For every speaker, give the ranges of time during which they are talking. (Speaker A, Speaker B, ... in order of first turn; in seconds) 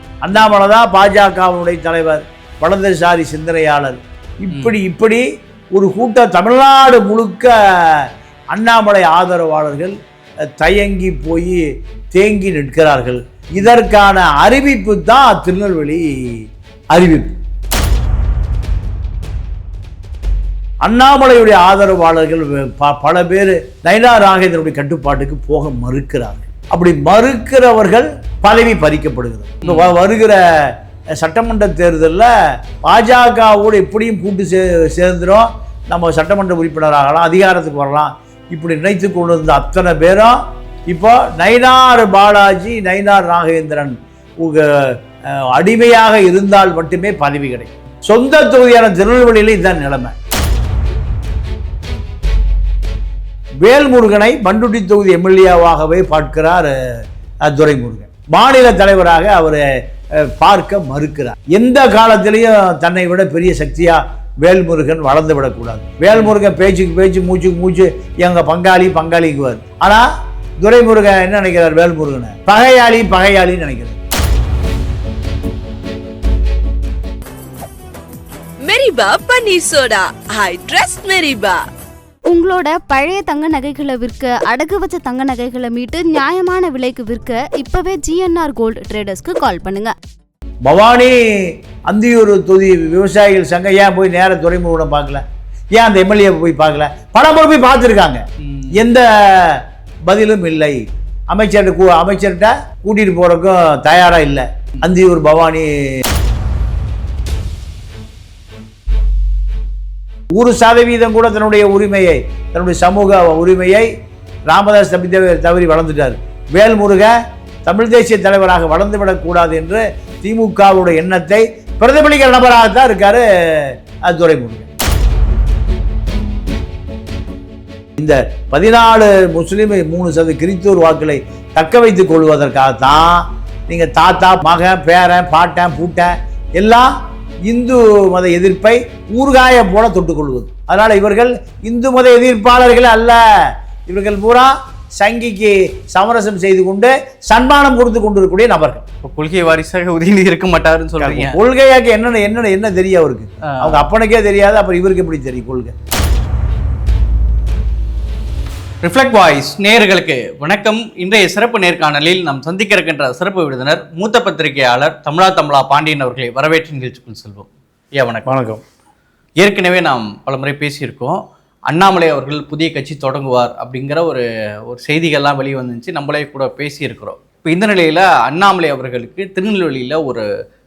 Speaker A: 0.2-5.2, 5.7-9.9, 10.6-11.6, 12.1-17.3, 20.8-32.3, 32.8-50.1, 53.6-56.7, 57.5-59.6, 60.2-70.0, 70.6-74.0, 90.7-95.2, 95.8-100.8, 101.3-105.7, 110.3-113.9, 114.5-124.7, 128.0-136.9, 137.5-148.8, 151.0-155.7, 168.2-168.6
Speaker B: 29.6-29.9, 149.0-151.4, 153.5-153.9, 158.8-168.3, 169.4-180.2
Speaker C: 78.6-81.6
Speaker D: 82.3-89.9